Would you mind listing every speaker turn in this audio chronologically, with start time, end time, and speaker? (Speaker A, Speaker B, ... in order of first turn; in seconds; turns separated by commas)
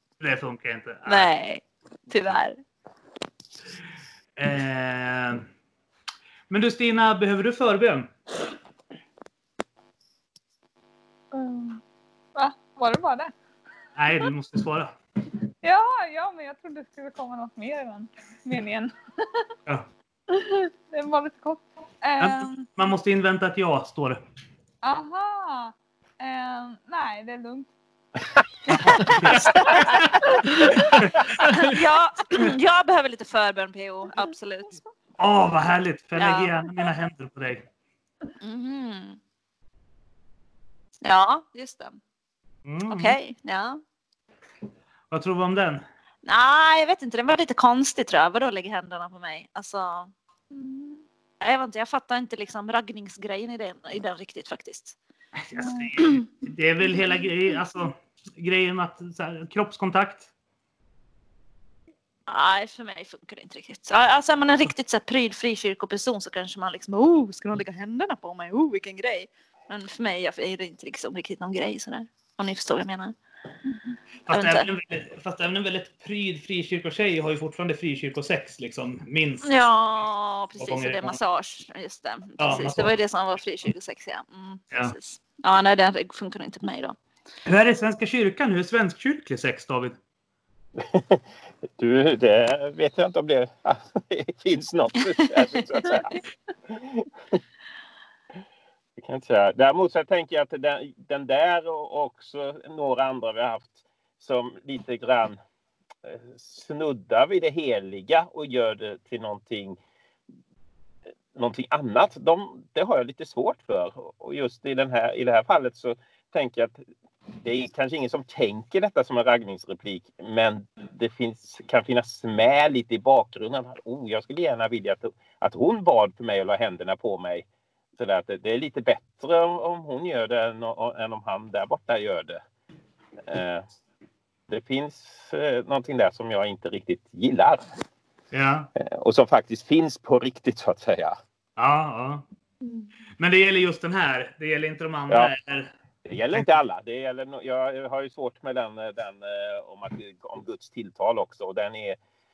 Speaker A: 0.2-1.3, Speaker B: 1.1-2.6, Speaker A: 4.4-5.5, Speaker A: 6.5-8.1, Speaker C: 11.3-11.8, Speaker C: 12.3-13.3, Speaker A: 14.0-14.9, Speaker C: 15.6-19.5, Speaker C: 20.3-22.7, Speaker A: 22.2-24.2, Speaker C: 24.8-27.7, Speaker A: 28.7-31.6, Speaker B: 28.8-30.8, Speaker C: 29.6-29.9, Speaker B: 31.5-34.8, Speaker A: 35.2-37.6, Speaker B: 36.2-36.5, Speaker B: 38.4-39.2, Speaker B: 41.0-42.0, Speaker A: 42.6-43.2, Speaker B: 42.9-43.8, Speaker A: 45.1-45.8, Speaker B: 46.2-50.1, Speaker C: 50.5-51.0, Speaker B: 51.4-55.0, Speaker A: 55.4-60.3, Speaker C: 55.6-55.9, Speaker B: 62.3-73.2, Speaker A: 74.3-79.5, Speaker B: 74.3-74.7, Speaker B: 79.4-87.0, Speaker A: 80.6-81.2, Speaker A: 82.4-83.0, Speaker A: 87.5-90.0, Speaker D: 90.8-91.2, Speaker D: 91.8-97.4, Speaker D: 99.0-105.4, Speaker D: 106.0-109.8, Speaker D: 111.3-116.8, Speaker D: 117.4-132.4, Speaker D: 133.3-133.7, Speaker D: 134.5-137.6, Speaker A: 138.3-138.7, Speaker D: 138.8-141.2, Speaker A: 141.6-142.2, Speaker A: 143.2-145.7, Speaker D: 146.1-152.0